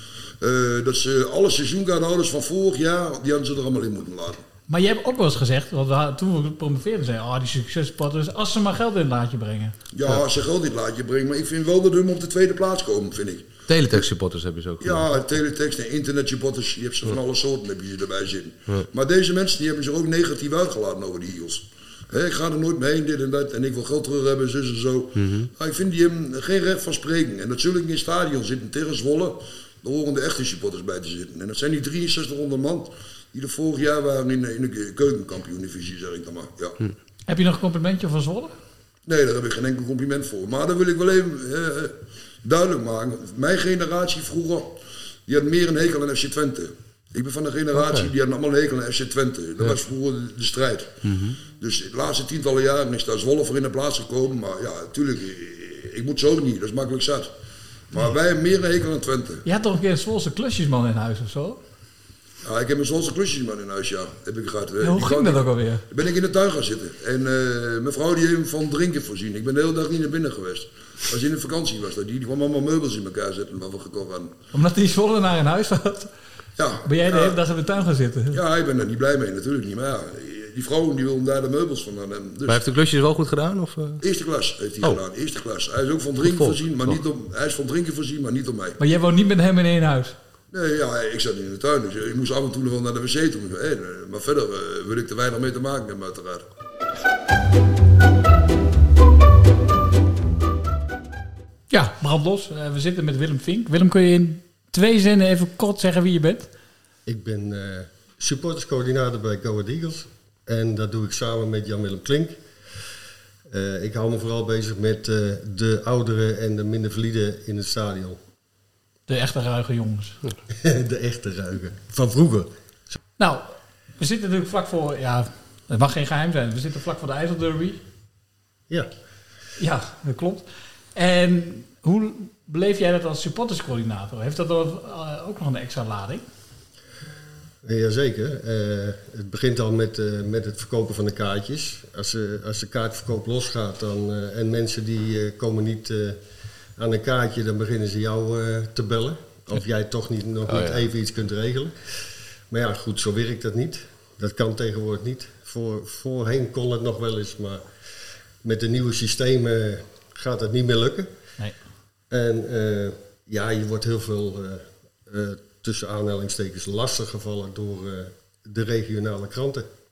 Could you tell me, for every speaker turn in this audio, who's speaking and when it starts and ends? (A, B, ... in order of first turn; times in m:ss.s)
0:00.4-0:04.4 A
0:04.7-0:09.7 B
0:09.9-0:14.0 A
0:13.7-0:15.1 C
0:14.8-0:36.8 A
0:25.2-0:25.5 C
0:37.3-0:38.5 B
0:39.0-0:50.9 A
0:47.7-0:48.1 C
0:51.0-0:51.4 C
0:51.6-0:57.3 A
0:57.9-0:59.4 A
0:59.4-1:01.6 B
1:02.4-1:14.3 A
1:04.8-1:05.8 B
1:14.5-1:16.1 B
1:16.6-1:17.4 A
1:16.8-1:18.4 B
1:18.3-1:22.6 A
1:22.5-1:24.0 C
1:24.0-1:28.8 A
1:26.2-1:27.0 C
1:28.8-1:30.1 B
1:30.5-1:36.4 A
1:41.7-1:46.5 B
1:47.0-1:52.4 D
1:53.5-1:58.2 D
1:59.1-2:00.2 B
2:00.5-2:02.5 D
2:03.2-2:07.8 B
2:09.6-2:16.2 B
2:17.6-2:26.2 D
2:26.8-2:31.7 D
2:30.5-2:30.8 C
2:32.5-2:37.6 D
2:38.4-2:41.1 D
2:42.1-2:49.7 D